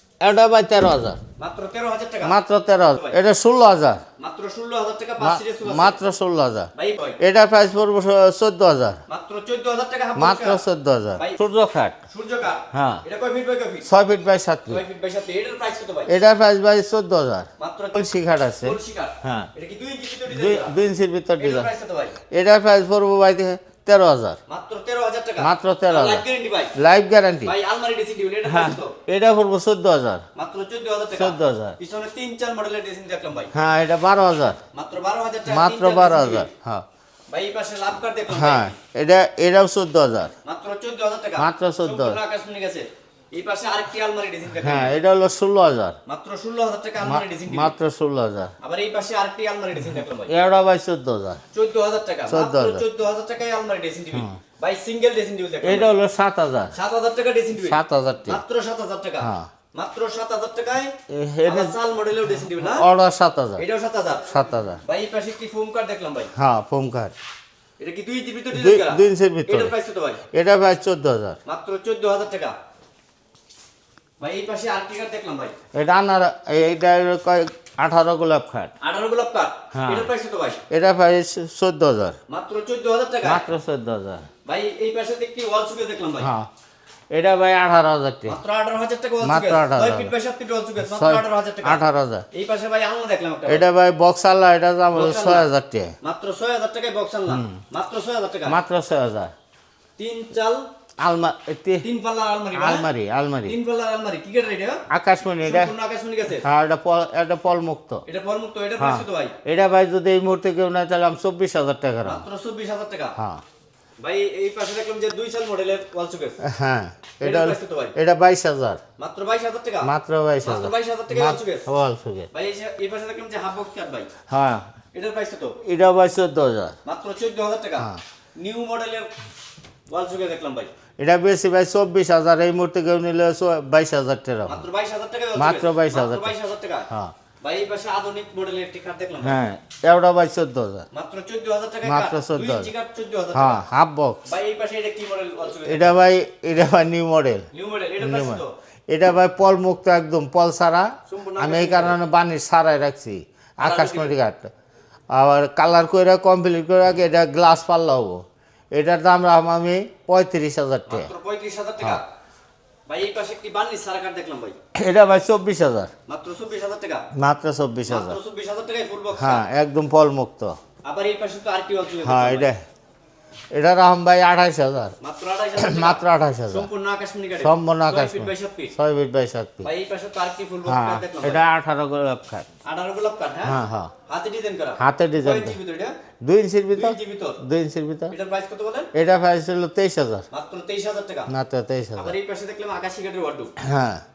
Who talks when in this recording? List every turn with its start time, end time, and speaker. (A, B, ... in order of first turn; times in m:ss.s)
0:00.2-0:01.2 A
0:01.4-0:02.4 B
0:02.2-0:04.0 A
0:02.9-0:03.2 B
0:04.2-0:06.0 B
0:05.2-0:09.0 A
0:06.7-0:07.2 B
0:09.1-0:10.6 B
0:10.2-0:12.0 A
0:11.1-0:11.4 B
0:12.1-0:13.9 B
0:12.7-0:13.0 A
0:13.8-0:14.8 A
0:14.7-0:16.1 B
0:16.1-0:19.5 A
0:17.6-0:18.1 B
0:18.6-0:20.8 B
0:20.3-0:21.7 A
0:21.4-0:22.2 B
0:22.3-0:24.4 A
0:24.5-0:26.7 B
0:25.4-0:26.2 A
0:26.8-0:27.5 A
0:27.4-0:29.0 B
0:28.4-0:30.2 A
0:30.3-0:33.5 B
0:31.1-0:31.8 A
0:33.5-0:34.6 A
0:34.7-0:36.5 B
0:35.4-0:36.8 A
0:37.3-0:38.8 B
0:38.3-0:40.3 A
0:40.4-0:45.0 B
0:41.4-0:42.2 A
0:44.6-0:46.0 A
0:46.0-0:47.7 B
0:47.0-0:48.5 A
0:48.6-0:50.3 B
0:50.0-0:51.4 A
0:51.5-0:55.9 B
0:52.3-0:52.8 A
0:54.1-0:54.4 A
0:55.6-0:56.7 A
0:56.7-1:02.9 B
0:57.6-0:58.4 A
0:59.2-0:59.5 A
1:01.1-1:01.8 A
1:02.6-1:03.6 A
1:03.6-1:06.3 B
1:04.3-1:04.8 A
1:06.4-1:07.1 A
1:07.8-1:10.2 B
1:08.5-1:09.7 A
1:10.3-1:11.4 A
1:11.4-1:12.5 B
1:14.2-1:15.5 B
1:15.7-1:18.7 A
1:18.8-1:20.6 B
1:19.7-1:20.1 A
1:20.7-1:22.2 A
1:22.3-1:23.4 B
1:23.2-1:24.2 A
1:24.4-1:26.3 B
1:26.2-1:26.5 A
1:27.1-1:28.4 A
1:28.3-1:31.8 B
1:29.2-1:30.1 A
1:30.8-1:32.2 A
1:32.3-1:33.6 B
1:33.4-1:35.9 A
1:34.9-1:35.5 B
1:36.0-1:38.6 B
1:37.3-1:37.6 A
1:38.5-1:39.3 A
1:40.0-1:40.6 B
1:41.0-1:41.8 A
1:41.8-1:42.9 B
1:42.5-1:43.6 A
1:43.4-1:44.8 B
1:44.9-1:45.7 A
1:45.4-1:46.4 B
1:46.4-1:48.0 A
1:48.0-1:49.4 B
1:48.8-1:52.2 A
1:52.0-1:53.2 B
1:54.0-1:56.4 B
1:56.4-1:58.8 A
1:57.2-1:57.9 B
1:59.0-1:59.9 B
1:59.8-2:02.3 A
2:00.4-2:01.7 B
2:02.3-2:04.1 B
2:04.3-2:04.6 A
2:04.9-2:05.6 B
2:05.6-2:06.7 A
2:06.8-2:09.1 B
2:09.9-2:10.7 B
2:11.0-2:14.7 A
2:14.4-2:16.9 B
2:15.4-2:16.3 A
2:17.4-2:19.4 B
2:19.2-2:20.8 A
2:20.9-2:23.6 B
2:21.8-2:22.7 A
2:23.3-2:24.2 A
2:24.2-2:26.0 B
2:25.6-2:27.5 A
2:27.5-2:28.5 B
2:28.0-2:34.5 A
2:31.0-2:32.0 B
2:33.6-2:34.2 B
2:35.1-2:41.1 A
2:40.9-2:42.0 B
2:42.9-2:44.6 B
2:44.8-2:45.9 A
2:46.1-2:47.0 B
2:47.2-2:48.2 A
2:47.9-2:49.4 B
2:49.2-2:50.5 A
2:50.8-2:52.5 B
2:52.0-2:52.6 A
2:53.5-2:54.9 A
2:55.0-2:58.7 B
2:55.6-2:56.7 A
2:57.4-2:59.7 A
2:59.6-3:01.4 B
3:00.6-3:02.5 A
3:02.6-3:06.0 B
3:03.4-3:03.9 A
3:04.8-3:05.6 A
3:06.2-3:08.1 A
3:06.7-3:07.4 B
3:08.1-3:08.9 B
3:08.9-3:10.2 A
3:10.3-3:11.3 B
3:11.3-3:12.1 A
3:12.0-3:13.5 B
3:13.6-3:14.0 A